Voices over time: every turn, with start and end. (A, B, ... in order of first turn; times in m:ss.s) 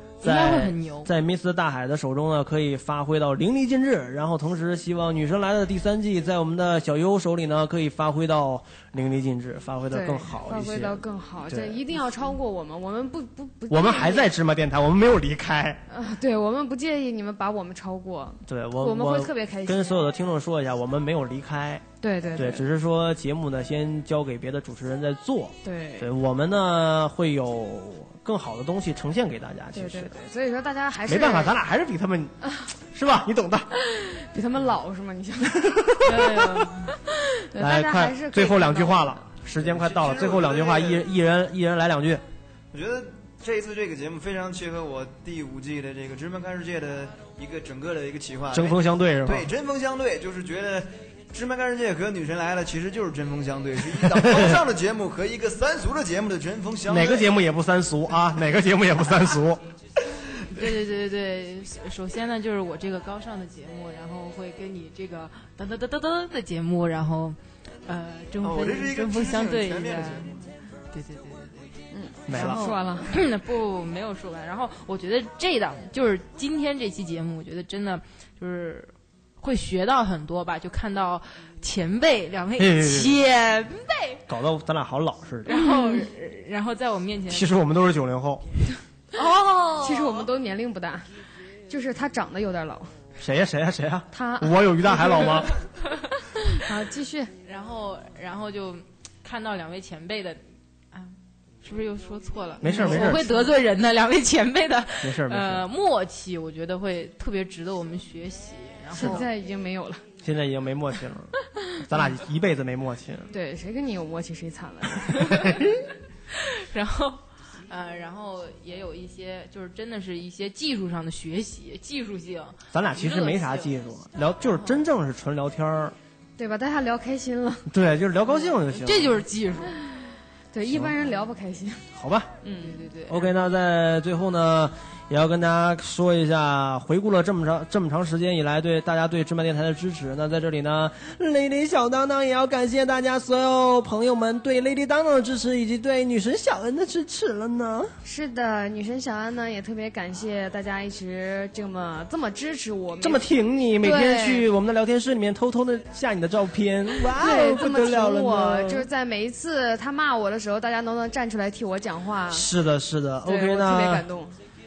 0:00.2-0:11.8 A
0:00.2-0:01.1 B
0:09.9-0:14.3 C
0:13.7-0:15.8 A
0:15.9-0:20.0 C
0:18.5-0:21.8 A
0:22.0-0:22.7 C
0:22.3-0:30.1 A
0:25.6-0:26.1 C
0:29.7-0:31.5 C
0:31.1-0:33.7 A
0:33.8-0:39.2 C
0:35.6-0:36.2 A
0:36.0-0:36.9 B
0:37.6-0:42.2 A
0:39.5-0:41.1 D
0:42.7-0:57.3 D
0:48.5-0:49.5 A
0:54.0-0:54.6 A
0:56.8-0:59.6 A
1:00.4-1:24.2 B
1:08.4-1:10.5 D
1:11.9-1:13.1 C
1:12.3-1:12.7 A
1:22.6-1:23.2 A
1:24.3-1:25.5 A
1:25.4-1:26.1 C
1:25.4-1:27.5 B
1:27.3-1:28.4 A
1:29.1-1:30.3 B
1:29.8-1:31.1 C
1:31.7-1:32.9 C
1:33.2-1:35.5 A
1:34.1-1:35.5 C
1:36.4-1:37.3 C
1:37.4-1:40.4 B
1:40.9-1:49.3 B
1:42.6-1:43.3 A
1:42.6-1:43.5 C
1:45.0-1:45.6 A
1:48.9-1:50.0 C
1:49.0-1:49.3 A
1:50.2-1:53.3 A
1:53.3-1:55.5 C
1:55.2-1:55.8 A
1:56.3-2:03.8 B
2:02.7-2:05.9 A
2:04.4-2:04.8 B
2:06.4-2:07.7 C
2:07.7-2:09.2 A
2:08.3-2:09.8 B
2:10.5-2:11.8 C
2:10.7-2:11.0 A
2:11.9-2:12.3 A
2:12.4-2:12.8 C
2:12.6-2:13.3 B
2:13.1-2:27.9 A
2:28.0-2:33.2 C
2:33.0-2:38.9 A
2:33.8-2:34.4 C
2:37.1-2:42.5 C
2:42.3-2:44.0 A
2:43.2-2:44.4 C